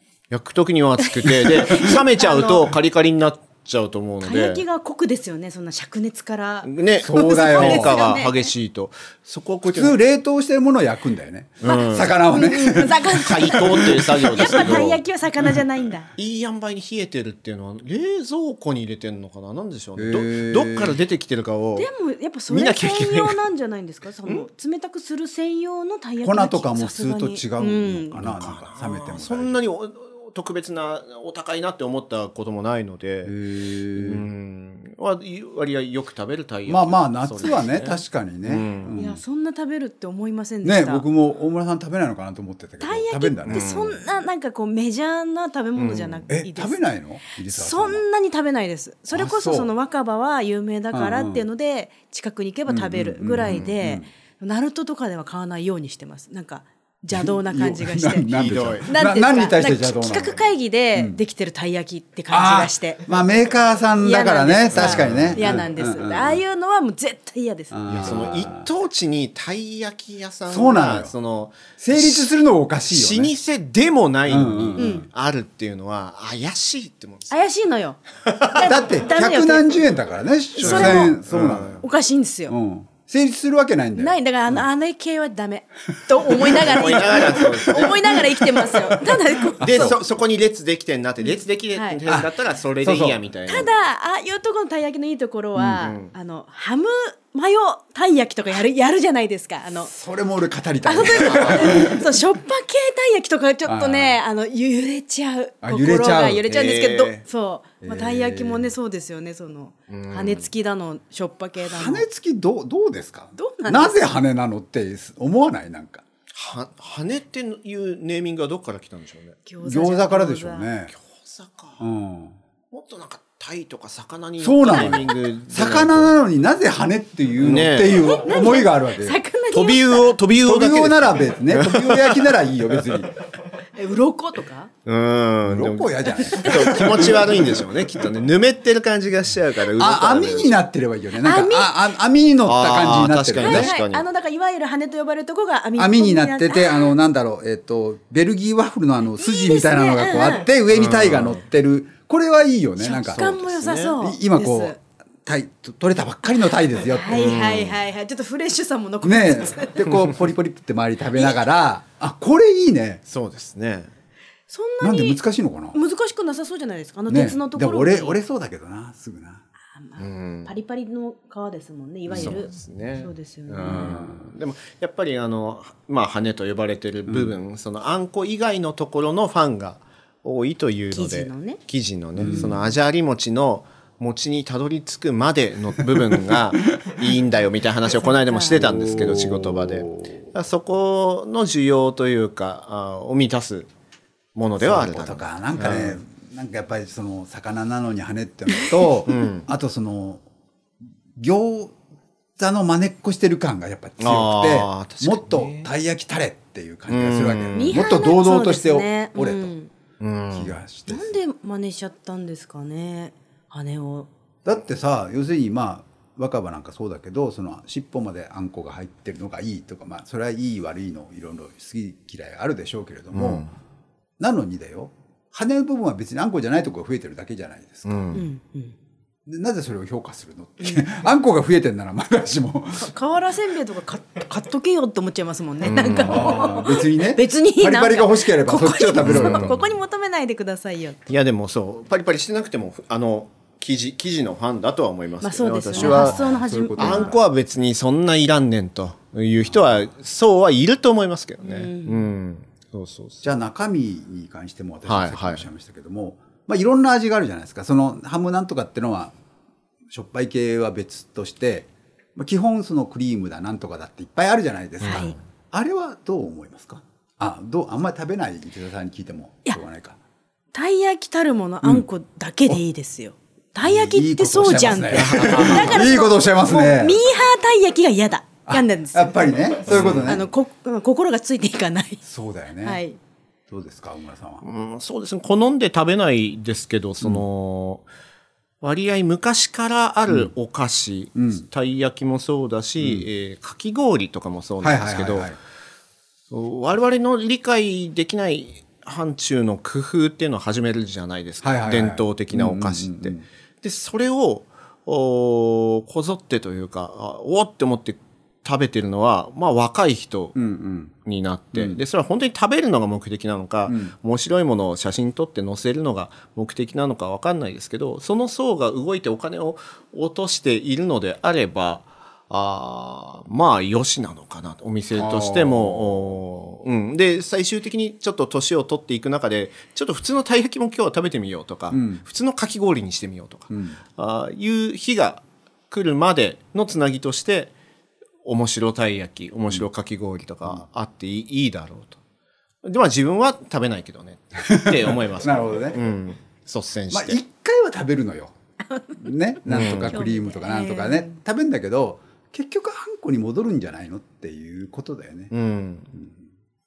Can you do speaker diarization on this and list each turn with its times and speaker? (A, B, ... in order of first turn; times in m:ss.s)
0:00.3-0:04.6 A
0:01.2-0:02.7 B
0:01.5-0:01.9 C
0:04.2-0:08.5 B
0:06.6-0:10.0 A
0:07.0-0:08.0 C
0:09.6-0:13.6 C
0:11.6-0:12.2 A
0:11.6-0:16.1 B
0:12.8-0:15.0 A
0:16.2-0:21.9 A
0:20.0-0:21.0 C
0:21.8-0:28.2 B
0:22.5-0:23.4 A
0:26.2-0:29.6 C
0:28.2-0:33.4 A
0:33.2-0:34.2 C
0:33.9-0:38.9 A
0:36.7-0:39.2 C
0:39.0-0:41.0 B
0:40.6-0:43.7 C
0:42.8-0:46.8 B
0:43.5-0:44.0 A
0:45.8-0:46.2 A
0:46.3-0:48.0 C
0:47.4-0:58.3 B
0:49.1-0:49.7 C
0:50.9-0:51.4 C
0:52.7-0:54.1 C
0:57.1-1:00.4 C
0:58.3-0:58.9 A
0:58.8-1:03.0 B
1:02.3-1:06.4 C
1:04.0-1:08.1 B
1:04.7-1:05.6 A
1:07.7-1:08.7 C
1:07.9-1:12.3 A
1:10.5-1:11.1 C
1:11.8-1:13.3 C
1:12.9-1:17.4 A
1:14.3-1:15.1 C
1:14.8-1:15.1 B
1:17.3-1:19.9 B
1:18.2-1:18.6 A
1:18.6-1:21.8 C
1:20.5-1:21.2 B
1:20.6-1:21.8 A
1:21.8-1:22.5 B
1:22.5-1:24.6 C
1:23.9-1:30.0 B
1:26.4-1:28.9 A
1:29.6-1:30.0 C
1:29.6-1:33.7 A
1:31.2-1:32.0 B
1:32.8-1:33.2 C
1:33.5-1:39.9 B
1:35.8-1:36.1 A
1:39.8-1:42.0 C
1:40.8-1:52.0 B
1:41.2-1:41.9 A
1:43.6-1:44.2 C
1:45.6-1:46.5 C
1:46.5-1:47.2 A
1:47.8-1:48.7 C
1:49.9-1:50.5 A
1:51.6-1:56.0 C
1:53.3-1:54.0 B
1:56.3-1:59.4 A
1:59.4-2:00.7 B
1:59.6-2:00.9 C
2:00.9-2:01.8 A
2:01.8-2:02.4 C
2:02.7-2:06.2 A
2:04.4-2:09.2 C
2:07.4-2:08.2 A
2:08.1-2:10.2 B
2:09.5-2:13.0 A
2:10.4-2:13.1 C
2:13.7-2:14.7 B
2:14.8-2:20.6 A
2:15.4-2:17.7 C
2:16.3-2:17.1 B
2:19.7-2:23.7 C
2:21.2-2:21.7 B
2:22.4-2:24.0 A
2:23.4-2:26.9 B
2:25.8-2:33.3 C
2:29.2-2:30.5 B
2:30.7-2:31.4 A
2:32.8-2:34.8 B
2:33.0-2:34.0 A
2:34.0-2:37.2 C
2:36.8-2:40.0 B
2:37.1-2:37.8 A
2:39.0-2:43.0 C
2:43.1-2:43.9 A
2:44.5-2:45.2 B
2:44.8-2:45.8 C
2:45.7-2:48.2 B
2:47.1-2:49.4 C
2:49.7-2:54.0 B
2:50.0-2:50.5 A
2:52.1-2:52.4 C
2:52.1-3:13.7 A
2:53.6-2:54.2 C
2:57.1-2:57.3 C
3:00.9-3:01.6 B
3:02.2-3:02.5 C
3:02.3-3:02.6 B
3:05.8-3:06.4 C
3:07.9-3:08.6 B
3:08.5-3:10.3 C
3:14.3-3:16.0 A
3:14.6-3:20.2 C
3:19.0-3:19.4 A
3:21.2-3:21.7 C
3:22.4-3:29.5 C
3:24.0-3:25.7 A
3:26.9-3:27.8 A
3:27.6-3:29.7 B
3:30.0-3:30.6 A
3:30.3-3:31.2 C
3:30.9-3:34.1 B
3:34.4-3:43.5 C
3:43.1-3:43.5 A
3:44.2-3:48.2 C
3:47.8-3:48.2 A
3:48.1-3:48.7 B
3:49.2-3:52.9 C
3:52.7-4:01.0 B
3:55.6-3:56.4 A
3:56.0-3:59.6 C
3:59.0-3:59.6 A
4:01.1-4:06.2 A
4:05.2-4:07.1 B
4:05.7-4:07.2 C
4:06.8-4:13.3 A
4:09.5-4:09.9 C
4:11.4-4:12.1 B
4:13.2-4:19.1 C
4:14.8-4:15.5 A
4:19.9-4:30.0 C
4:24.8-4:25.1 B
4:24.8-4:25.2 A
4:30.5-4:42.0 B
4:33.6-4:37.0 C
4:34.9-4:35.9 A
4:38.5-4:40.3 C
4:39.7-4:40.2 A
4:42.0-4:42.8 C
4:42.6-4:43.0 B
4:43.5-4:44.4 C
4:44.4-4:47.8 A
4:48.6-4:55.3 A
4:51.2-4:51.4 C
4:52.8-4:53.1 C
4:54.6-4:55.4 C
4:56.3-5:10.4 A
5:01.4-5:03.2 C
5:10.3-5:10.9 C
5:11.0-5:37.5 A
5:11.5-5:11.8 C
5:13.7-5:13.9 C
5:24.9-5:26.2 C
5:31.7-5:32.0 C
5:33.5-5:33.8 C
5:38.2-5:42.0 A
5:42.6-5:47.2 A
5:44.4-5:45.8 C
5:46.9-5:48.3 C
5:48.7-5:49.1 B
5:48.9-5:55.3 C
5:49.4-5:50.0 A
5:49.9-5:51.2 B
5:55.3-5:55.9 A